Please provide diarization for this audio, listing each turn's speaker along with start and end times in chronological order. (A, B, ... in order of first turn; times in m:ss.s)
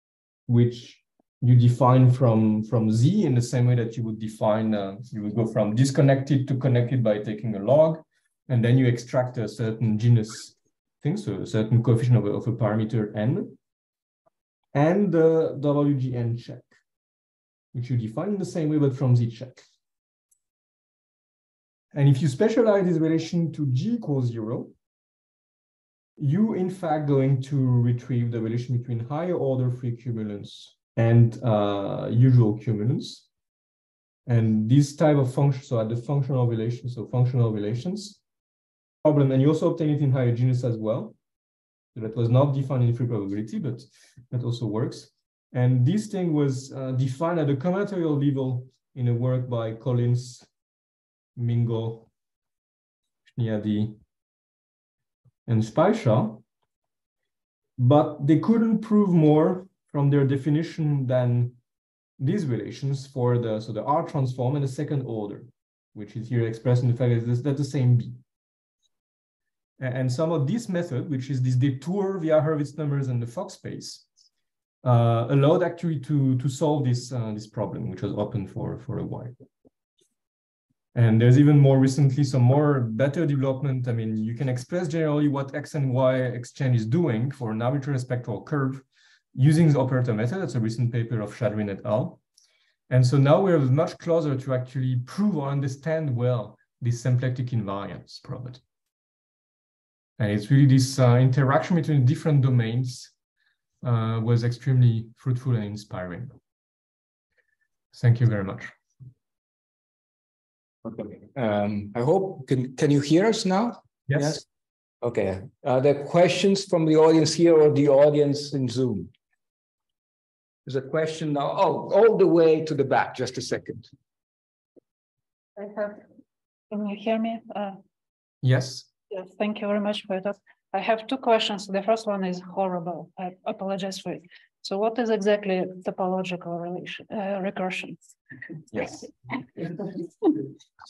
0:00.5-0:13.6 A
0:14.7-0:16.7 A
0:17.7-0:19.6 A
0:21.9-0:24.7 A
0:26.2-0:33.3 A
0:34.2-0:38.2 A
0:39.0-0:41.1 A
0:41.9-0:50.5 A
0:51.4-0:52.1 A
0:53.3-0:54.0 A
0:55.5-0:56.4 A
0:57.8-1:01.6 A
1:02.2-1:08.2 A
1:09.8-1:14.0 A
1:14.8-1:19.3 A
1:20.9-1:32.2 A
1:32.9-1:38.6 A
1:40.2-1:43.1 A
1:43.8-1:46.3 A
1:47.9-1:48.7 A
1:50.8-1:54.4 B
1:54.1-1:54.4 A
1:55.0-1:59.1 B
2:00.6-2:03.9 B
2:05.6-2:06.1 C
2:06.7-2:07.8 C
2:08.4-2:08.9 A
2:09.1-2:18.1 C
2:18.7-2:19.1 A